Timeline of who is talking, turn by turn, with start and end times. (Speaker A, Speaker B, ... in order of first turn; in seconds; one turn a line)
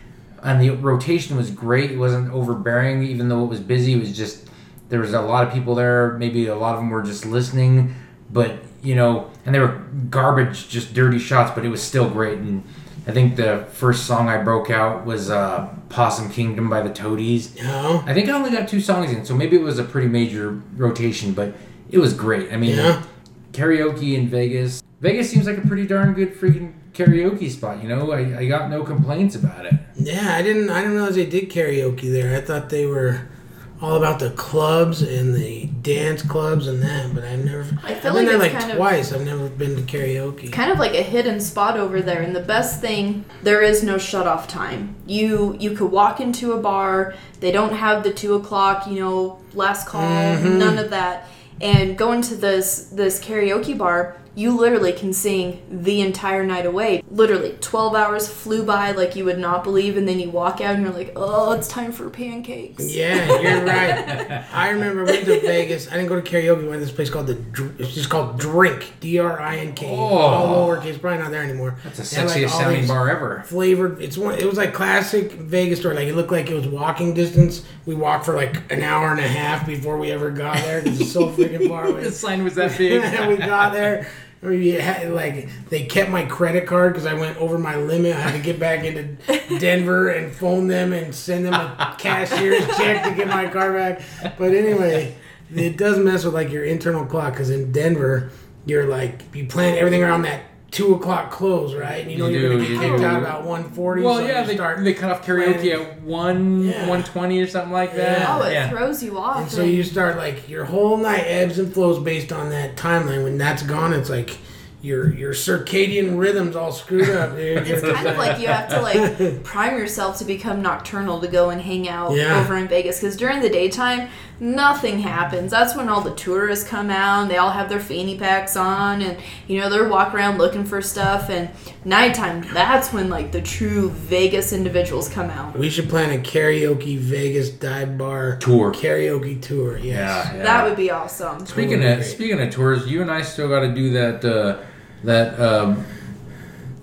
Speaker A: 0.4-17.5
Speaker B: 17.6-18.1
Speaker A: 18.1-23.0
Speaker B: 22.6-23.0
Speaker A: 23.5-29.8
Speaker B: 30.0-33.2
Speaker B: 33.8-40.6
Speaker C: 37.8-38.9
Speaker C: 40.5-64.4
Speaker B: 49.9-50.8
Speaker B: 62.8-105.8
Speaker A: 64.1-64.4
Speaker C: 65.1-65.5
Speaker A: 69.8-70.8
Speaker A: 71.8-73.5
Speaker A: 80.7-83.5
Speaker A: 102.1-103.3
Speaker C: 102.7-103.1
Speaker A: 103.9-108.7
Speaker B: 106.6-107.1
Speaker B: 107.9-108.5
Speaker C: 108.2-109.9
Speaker B: 109.3-118.4
Speaker A: 117.6-118.8
Speaker C: 117.6-135.6
Speaker B: 118.9-119.3
Speaker B: 122.1-122.5
Speaker B: 135.6-140.3
Speaker A: 138.4-138.8
Speaker A: 139.9-140.7
Speaker C: 140.3-141.6
Speaker B: 141.5-142.2
Speaker A: 141.5-145.9